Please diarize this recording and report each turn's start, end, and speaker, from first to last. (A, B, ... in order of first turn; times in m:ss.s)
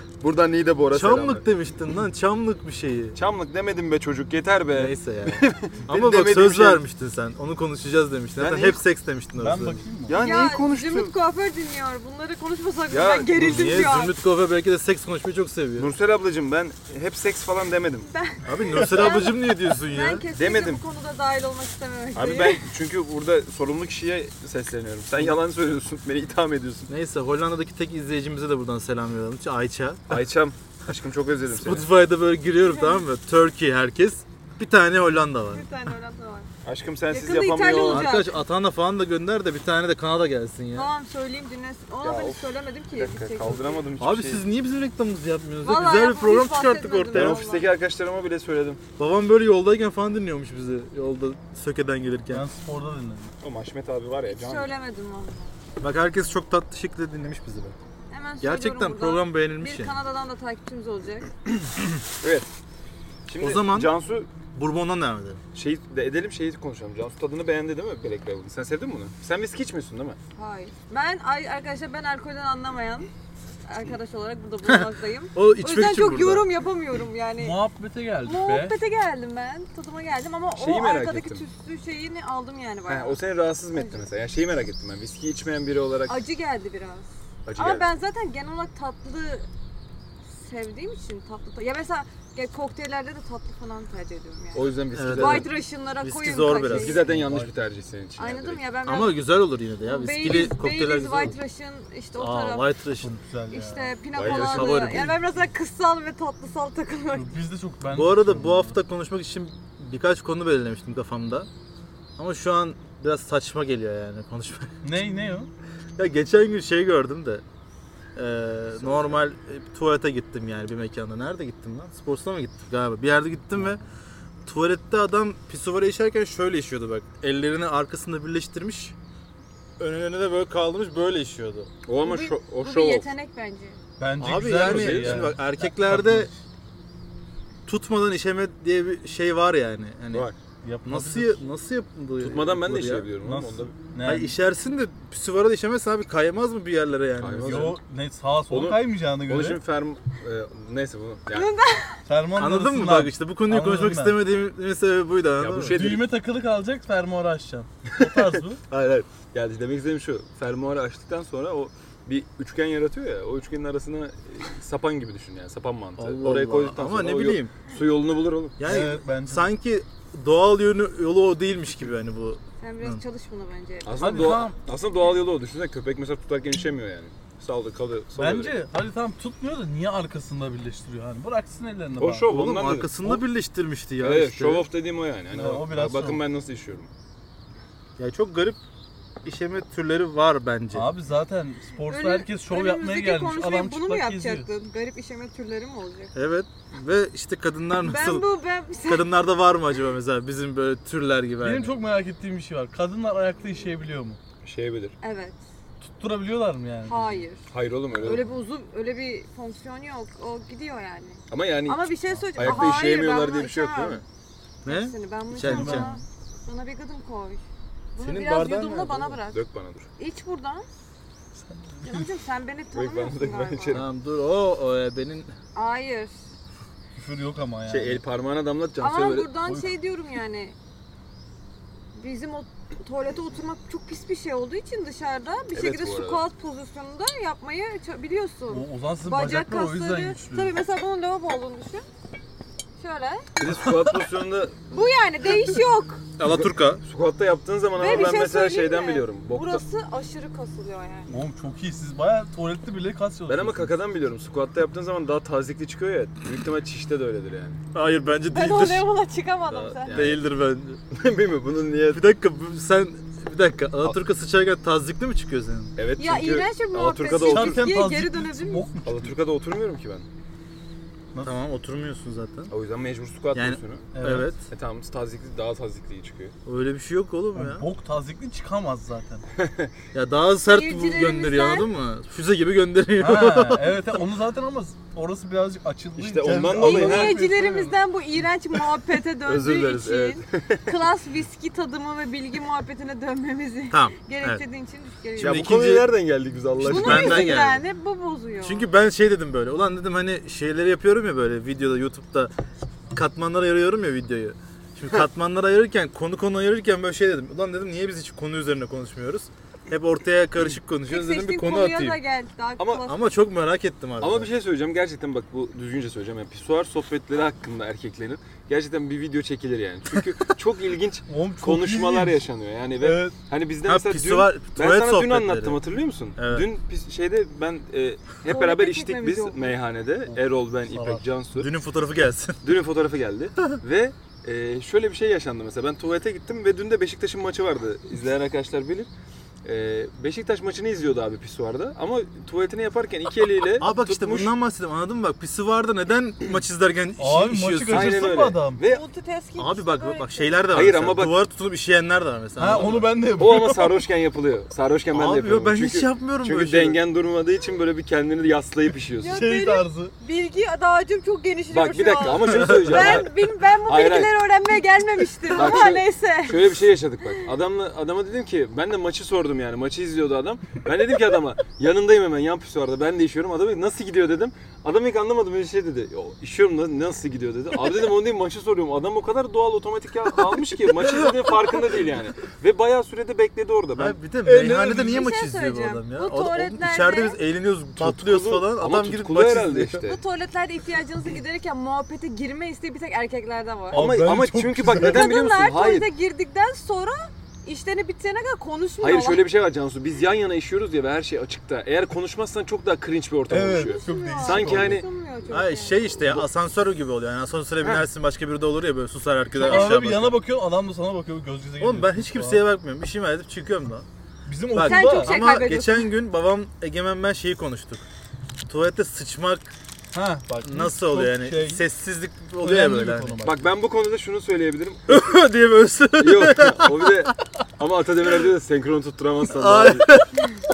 0:00.2-0:01.4 A
0:00.9-0:03.2 B
0:03.1-0:06.8 A
0:04.7-0:09.8 B
0:08.4-0:08.8 A
0:09.4-0:10.2 C
0:10.1-0:11.1 A
0:10.1-0:14.1 D
0:12.9-0:13.9 A
0:13.4-0:15.9 B
0:15.8-0:18.1 A
0:18.1-0:22.6 D
0:18.4-0:20.2 B
0:20.3-0:20.8 A
0:22.1-0:26.9 A
0:26.9-0:30.2 B
0:30.1-0:31.9 A
0:31.5-0:35.6 B
0:32.6-0:33.0 D
0:35.5-0:36.5 D
0:36.6-0:38.1 A
0:37.1-0:38.4 D
0:37.8-0:40.9 B
0:40.7-0:43.8 D
0:42.0-0:44.5 A
0:44.0-0:47.4 B
0:45.6-0:47.7 D
0:47.1-0:48.8 A
0:49.0-0:52.4 B
0:52.3-0:53.3 C
0:53.4-0:54.7 A
0:54.3-0:55.5 D
0:55.8-0:57.8 B
0:58.1-1:01.3 D
0:58.4-1:00.0 B
1:02.2-1:02.5 A
1:03.3-1:04.3 A
1:03.4-1:03.9 B
1:04.5-1:05.4 B
1:05.5-1:10.2 A
1:10.4-1:13.1 D
1:13.6-1:17.6 D
1:14.7-1:16.5 B
1:17.4-1:18.8 C
1:18.2-1:23.2 D
1:20.6-1:21.4 A
1:22.9-1:26.2 A
1:23.7-1:24.1 D
1:26.1-1:29.5 D
1:27.4-1:27.9 A
1:30.3-1:37.1 D
1:34.5-1:35.5 A
1:34.9-1:37.5 B
1:36.5-1:38.6 A
1:37.1-1:37.4 C
1:38.2-1:39.2 D
1:38.8-1:41.4 B
1:39.8-1:42.7 D
1:42.2-1:43.2 B
1:43.0-1:44.0 C
1:43.5-1:47.3 D
1:44.1-1:45.0 A
1:44.2-1:45.2 B
1:47.1-1:48.8 C
1:47.9-1:51.5 B
1:52.2-1:54.8 B
1:54.8-1:55.5 C
1:56.0-1:57.4 B
1:58.1-2:03.8 B
2:04.4-2:08.9 B
2:09.8-2:11.7 B
2:11.8-2:13.1 A
2:12.0-2:13.8 D
2:14.0-2:16.3 C
2:14.2-2:16.3 B
2:14.5-2:15.4 A
2:17.6-2:20.3 B
2:20.6-2:21.4 C
2:20.8-2:23.1 B
2:22.2-2:23.7 A
2:23.2-2:24.3 C
2:24.0-2:27.8 B
2:27.2-2:27.8 A
2:27.4-2:29.6 C
2:28.5-2:31.5 A
2:31.3-2:32.0 D
2:32.0-2:34.2 C
2:32.4-2:35.8 B
2:35.4-2:36.1 A
2:35.7-2:38.6 C
2:37.9-2:48.6 A
2:46.0-2:47.5 B
2:48.6-2:53.0 B
2:48.6-2:49.5 C
2:52.6-2:54.3 D
2:53.8-2:58.6 A
2:54.0-2:54.5 C
2:58.2-3:02.3 C
3:02.0-3:03.2 A
3:02.3-3:04.7 B
3:04.0-3:06.9 A
3:05.3-3:06.2 C
3:08.0-3:08.6 B
3:09.2-3:10.9 B
3:10.7-3:14.5 C
3:11.9-3:16.1 D
3:16.1-3:18.3 B
3:17.8-3:19.1 D
3:18.8-3:21.7 B
3:21.4-3:24.2 C
3:24.4-3:25.0 A
3:25.0-3:25.4 D
3:25.8-3:27.2 C
3:26.8-3:27.4 D
3:27.5-3:28.3 A
3:28.0-3:34.0 D
3:31.3-3:34.0 A
3:32.1-3:32.8 C
3:34.6-3:36.0 B
3:34.6-3:37.4 D
3:35.4-3:36.0 C
3:37.9-3:39.4 D
3:38.0-3:39.2 B
3:39.3-3:39.9 A
3:40.0-3:40.7 D
3:41.4-3:42.1 C
3:41.8-3:43.8 D
3:42.7-3:43.9 A
3:43.7-3:45.3 B
3:45.5-3:46.2 D
3:47.0-3:48.0 C
3:47.7-3:49.4 A
3:48.8-3:50.6 D
3:49.4-3:49.7 C
3:51.9-4:01.9 D
3:55.5-3:56.2 A
3:58.5-4:00.5 C
4:02.8-4:03.3 D
4:03.4-4:04.6 A
4:03.6-4:04.0 C
4:04.7-4:06.0 D
4:06.2-4:06.8 B
4:06.2-4:09.6 A
4:07.8-4:11.1 D
4:07.9-4:08.1 C
4:11.1-4:13.7 C
4:13.3-4:17.6 A
4:17.7-4:18.9 B
4:18.3-4:20.0 D
4:19.5-4:20.2 A
4:19.9-4:20.8 B
4:20.9-4:22.0 A
4:21.9-4:25.7 B
4:25.8-4:27.7 A
4:26.0-4:28.7 D
4:27.2-4:29.1 C
4:28.8-4:30.1 A
4:31.2-4:32.5 B
4:32.5-4:33.9 A
4:33.3-4:34.4 B
4:33.9-4:34.3 C
4:34.5-4:36.3 A
4:36.4-4:37.7 B
4:37.3-4:39.3 C
4:39.4-4:39.7 A
4:39.9-4:44.0 B
4:40.4-4:41.7 D
4:43.0-4:47.8 C
4:46.0-4:47.2 A
4:46.5-4:55.5 D
4:49.2-4:50.7 A
4:53.7-4:54.4 B
4:55.2-4:57.4 A
4:55.2-4:55.9 B
4:56.6-4:57.6 B
4:56.6-4:58.7 D
4:58.4-5:02.3 B
5:02.9-5:12.0 B
5:10.9-5:13.0 D
5:12.6-5:12.8 A
5:12.8-5:14.3 B
5:14.0-5:31.5 A
5:21.1-5:22.2 C
5:22.8-5:23.1 C
5:23.6-5:25.6 B
5:26.2-5:26.5 B
5:28.2-5:29.5 D
5:30.7-5:31.0 C
5:31.3-5:32.4 B
5:32.4-5:38.9 A
5:39.4-5:44.3 A
5:43.6-5:48.0 B
5:47.0-5:48.6 C
5:47.7-5:48.8 A
5:48.6-5:50.3 D
5:49.4-5:52.9 B
5:50.5-5:51.2 A
5:52.4-5:53.8 C
5:53.1-5:59.2 A
5:54.9-5:56.8 B
5:59.0-6:06.5 D
5:59.0-5:59.9 C
6:01.5-6:04.1 A
6:05.3-6:24.0 A
6:21.0-6:21.3 B
6:23.7-6:29.8 B
6:24.2-6:25.0 C
6:24.7-6:27.2 D
6:27.8-6:30.0 A
6:29.8-6:33.9 D
6:33.7-6:35.1 C
6:33.7-6:35.9 A
6:34.8-6:39.3 D
6:38.8-6:44.8 A
6:43.3-6:44.8 C
6:43.5-6:46.0 D
6:45.3-6:50.1 B
6:49.4-6:52.4 C
6:51.6-6:53.8 B
6:54.2-6:55.2 C
6:54.5-6:57.8 B
6:54.6-6:55.9 D
6:58.4-6:59.5 B
6:59.9-7:01.6 C
7:00.4-7:03.2 B
7:02.4-7:03.4 C
7:03.2-7:05.0 A
7:04.9-7:07.1 B
7:06.0-7:10.0 A
7:09.3-7:10.3 B